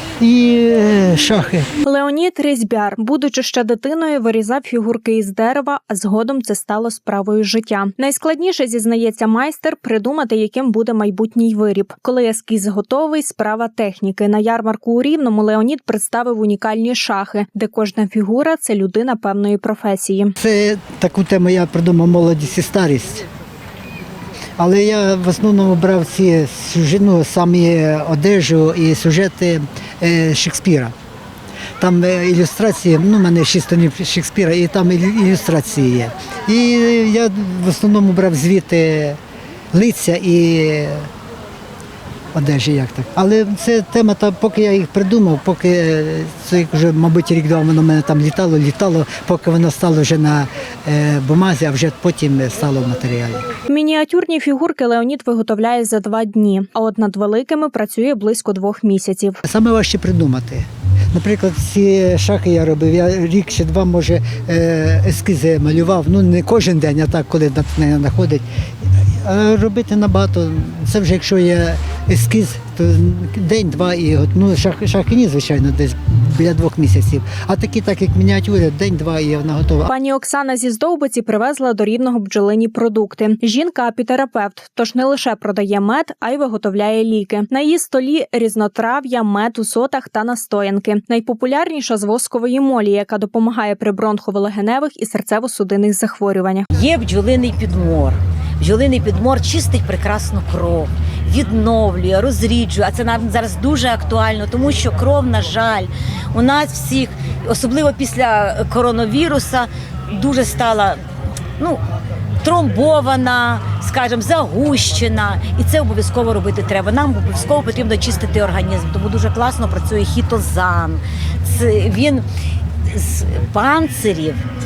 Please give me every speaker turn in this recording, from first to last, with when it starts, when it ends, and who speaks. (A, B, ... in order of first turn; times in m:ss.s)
0:00.2-0:01.7 A
0:01.8-0:20.4 B
0:20.4-0:23.2 A
0:24.6-0:30.9 A
0:31.8-0:39.2 A
0:39.7-0:41.1 A
0:42.3-0:53.4 A
0:53.7-0:59.4 B
0:59.4-1:08.4 A
1:09.1-1:19.9 A
1:19.9-1:36.7 B
1:36.7-1:51.0 C
1:52.4-2:02.2 C
2:02.9-2:04.4 C